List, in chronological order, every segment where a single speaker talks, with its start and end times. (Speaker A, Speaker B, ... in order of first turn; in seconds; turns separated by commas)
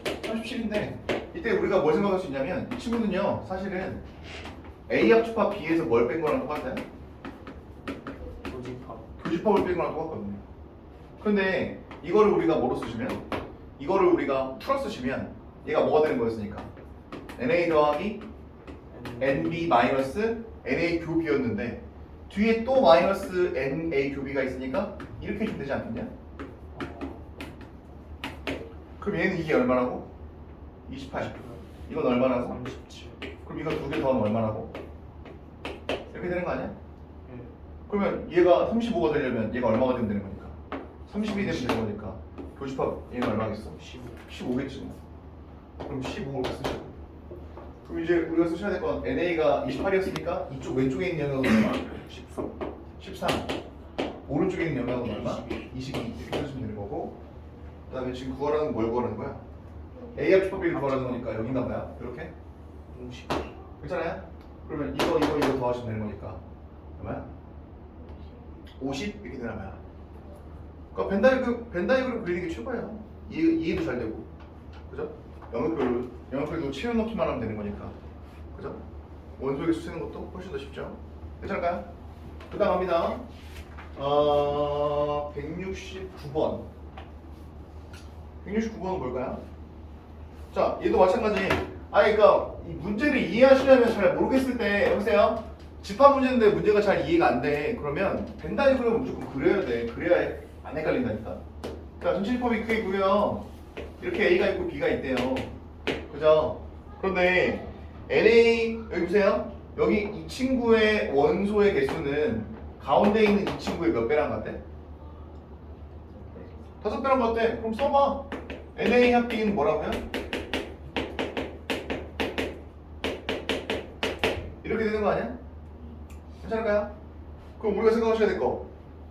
Speaker A: 0.2-4.0, Speaker A: 4.9-6.8, Speaker B: 8.4-9.1, Speaker A: 9.2-10.4, Speaker A: 11.2-13.2, Speaker A: 13.8-16.7, Speaker A: 17.4-18.2, Speaker B: 18.9-19.8, Speaker A: 19.2-26.1, Speaker B: 26.7-27.3, Speaker A: 29.0-30.1, Speaker A: 30.9-32.6, Speaker B: 31.2-31.6, Speaker B: 32.3-33.3, Speaker A: 33.4-34.7, Speaker A: 36.1-36.7, Speaker B: 37.2-37.5, Speaker A: 37.9-45.0, Speaker B: 41.2-41.8, Speaker B: 43.7-44.2, Speaker A: 45.8-47.0, Speaker A: 47.8-51.9, Speaker B: 51.7-52.5, Speaker A: 53.0-53.5, Speaker A: 54.2-57.2, Speaker B: 55.0-55.7, Speaker A: 57.9-59.4, Speaker A: 60.1-62.3, Speaker B: 60.5-61.5, Speaker B: 62.9-63.5, Speaker A: 63.8-66.4, Speaker A: 67.0-67.3, Speaker A: 68.8-69.8, Speaker A: 70.9-74.3, Speaker A: 74.9-77.9, Speaker A: 78.5-78.8, Speaker A: 79.4-81.9, Speaker A: 82.5-83.2, Speaker A: 83.9-86.7, Speaker A: 88.4-89.4, Speaker A: 90.5-101.4, Speaker A: 102.0-103.5, Speaker A: 104.0-105.5, Speaker A: 106.1-114.6, Speaker A: 116.8-120.0, Speaker A: 124.6-125.4, Speaker A: 126.4-126.9, Speaker A: 127.6-128.7